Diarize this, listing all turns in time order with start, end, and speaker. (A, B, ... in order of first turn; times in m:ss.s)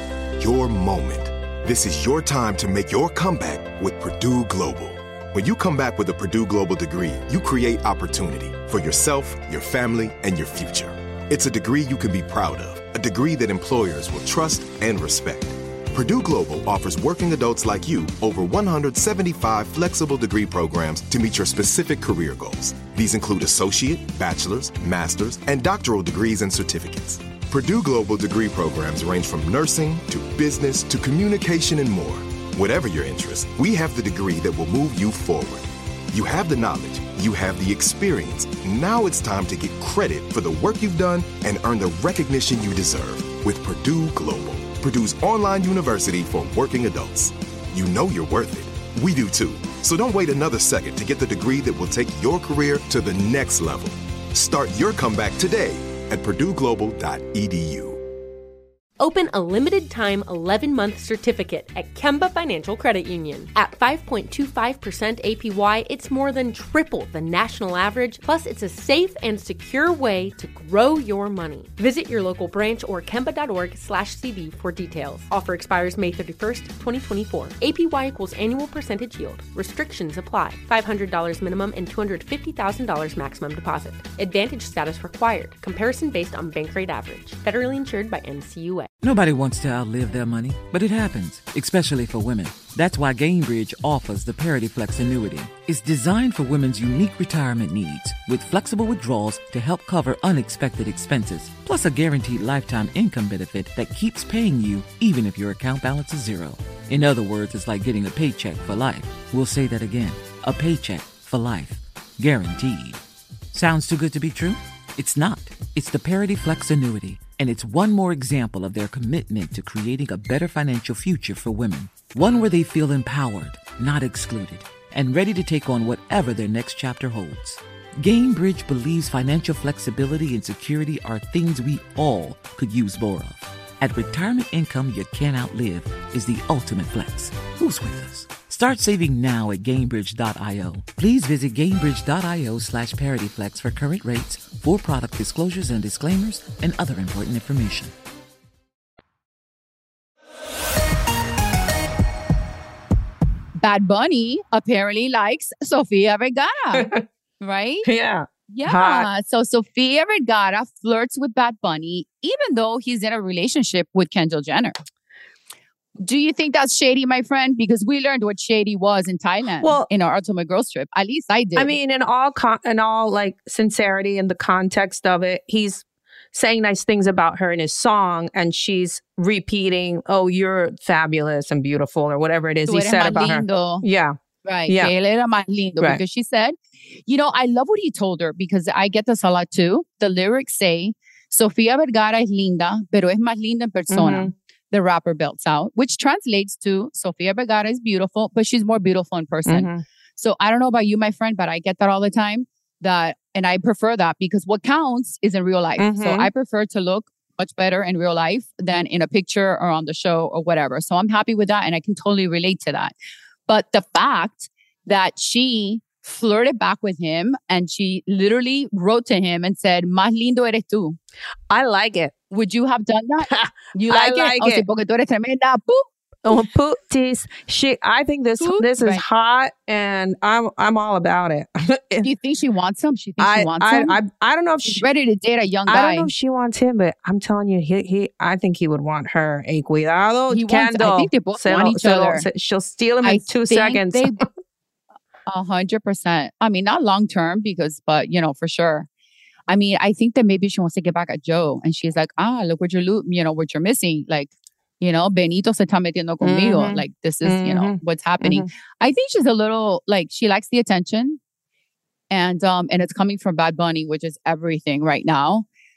0:00.4-0:58.0 A
0:59.0-1:28.9 B
1:29.0-1:53.0 C
1:53.5-2:27.9 C
2:33.6-2:36.9 D
2:36.8-2:37.0 E
2:37.4-2:37.9 D
2:37.8-2:39.1 E
2:38.5-2:44.8 D
2:46.0-2:51.7 D
2:49.6-2:49.9 E
2:51.6-3:04.2 E
3:02.7-3:03.8 D
3:04.4-3:32.9 D
3:13.9-3:14.3 E
3:19.5-3:19.8 E
3:25.8-3:26.3 E
3:33.5-3:41.0 D
3:41.5-3:42.1 E
3:42.3-3:45.9 D
3:43.3-3:44.6 E
3:46.3-3:52.1 E
3:48.4-3:49.0 D
3:52.0-3:54.0 D
3:53.2-3:54.8 E
3:54.6-3:56.1 D
3:55.7-4:04.2 E
4:00.3-4:02.3 D
4:03.0-4:04.2 D
4:05.3-4:08.9 D
4:09.5-4:21.2 D
4:16.2-4:18.5 E
4:22.1-4:25.5 D